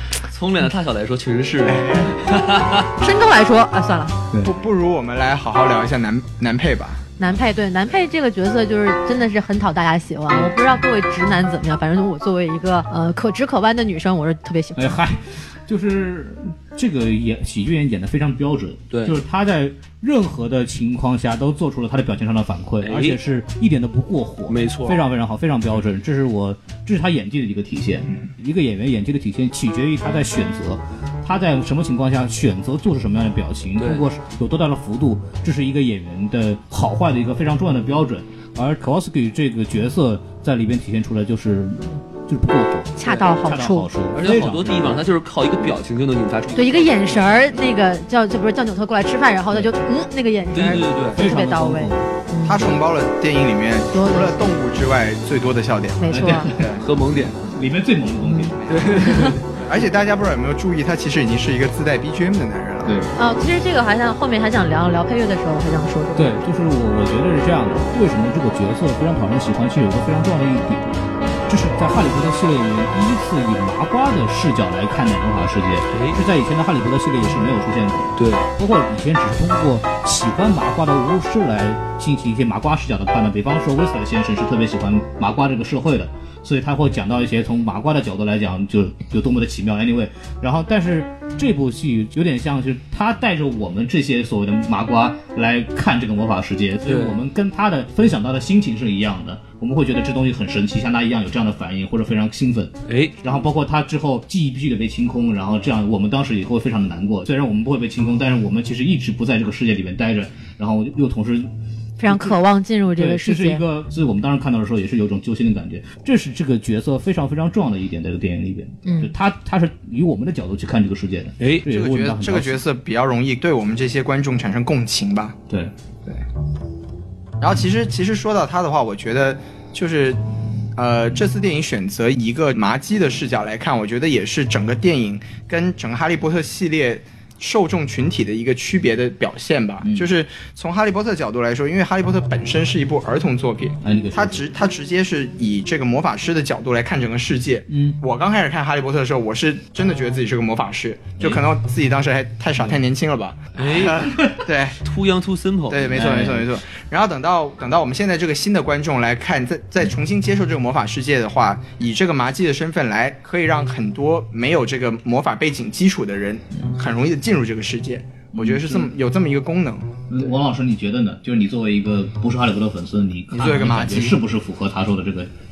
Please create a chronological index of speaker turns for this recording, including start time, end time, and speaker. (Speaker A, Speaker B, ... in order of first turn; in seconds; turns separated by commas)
Speaker A: 0.2-2.9, Speaker B: 1.6-2.3, Speaker C: 3.0-4.3, Speaker B: 4.4-7.0, Speaker C: 7.2-15.0, Speaker D: 14.8-45.0, Speaker A: 18.9-19.2, Speaker A: 22.8-23.2, Speaker A: 24.5-25.0, Speaker A: 33.8-34.1, Speaker C: 43.0-43.9, Speaker A: 44.1-47.5, Speaker C: 46.5-52.7, Speaker A: 50.5-51.2, Speaker D: 51.1-52.8, Speaker B: 52.5-56.0, Speaker C: 53.9-54.4, Speaker C: 56.0-56.5, Speaker D: 56.1-59.4, Speaker A: 56.8-57.6, Speaker C: 58.2-58.5, Speaker B: 58.6-58.9, Speaker A: 58.7-59.4, Speaker C: 59.1-59.3, Speaker B: 59.6-63.0, Speaker D: 62.8-63.1, Speaker C: 63.1-66.4, Speaker D: 66.2-111.5, Speaker A: 75.9-76.2, Speaker A: 78.2-78.5, Speaker A: 96.8-97.2, Speaker A: 102.9-103.2, Speaker C: 112.0-113.6, Speaker D: 112.1-112.4, Speaker D: 113.0-122.6, Speaker C: 118.8-119.1, Speaker A: 121.4-121.7, Speaker B: 121.7-125.4, Speaker B: 127.4-130.2, Speaker B: 130.8-154.8, Speaker D: 139.8-140.1, Speaker D: 143.8-144.5, Speaker D: 147.7-148.0, Speaker D: 151.2-151.5, Speaker D: 152.6-152.8, Speaker A: 153.6-154.1, Speaker A: 154.8-156.3, Speaker B: 155.7-170.2, Speaker D: 155.9-156.5, Speaker D: 168.3-168.9, Speaker D: 170.1-175.3, Speaker B: 173.3-174.2